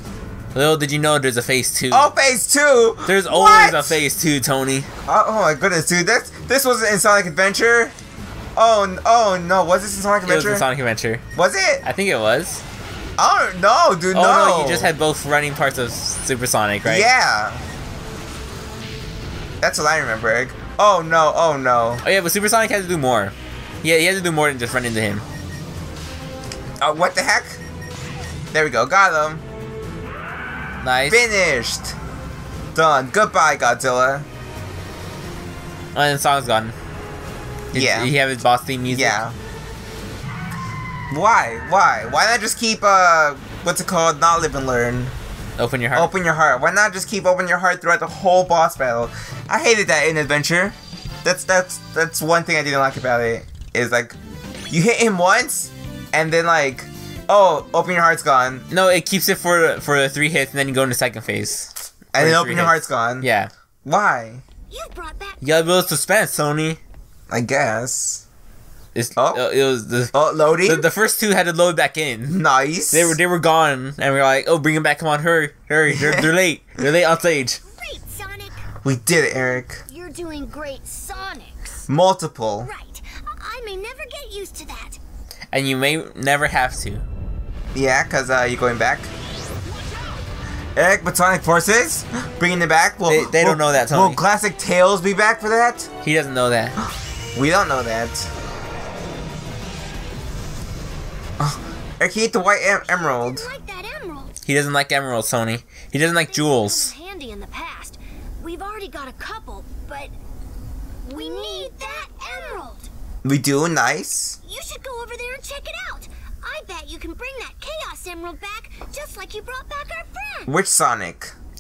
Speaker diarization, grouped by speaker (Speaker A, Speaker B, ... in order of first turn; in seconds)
Speaker A: 0.5-2.1, 3.1-4.9, 10.2-11.2, 11.8-12.6, 14.1-17.1, 22.0-25.2, 30.8-31.2, 36.0-36.8, 37.7-39.2, 45.6-46.1, 58.7-63.5, 65.4-66.8, 69.0-72.4, 72.9-77.6, 85.5-87.0, 93.1-94.2, 96.0-96.8, 104.5-106.9
Speaker B: 1.9-4.0, 5.1-7.9, 8.6-10.7, 11.4-11.8, 13.2-14.9, 16.9-17.6, 19.6-22.0, 26.8-27.6, 28.5-29.4, 31.1-32.0, 32.8-34.3, 37.7-38.1, 38.9-39.4, 41.1-45.1, 46.0-54.2, 54.7-58.7, 62.1-63.3, 63.9-64.4, 67.3-68.2, 69.2-69.4, 70.1-70.9, 72.3-73.2, 75.9-76.3, 78.8-79.8, 81.9-82.7, 87.8-89.1, 90.8-95.9, 97.3-98.3, 101.4-103.5, 113.2-114.4, 120.5-121.3
Speaker C: 64.7-65.4, 77.8-78.6, 79.9-81.6, 82.6-85.0, 102.9-104.3, 106.3-110.1, 111.0-112.9, 114.4-120.5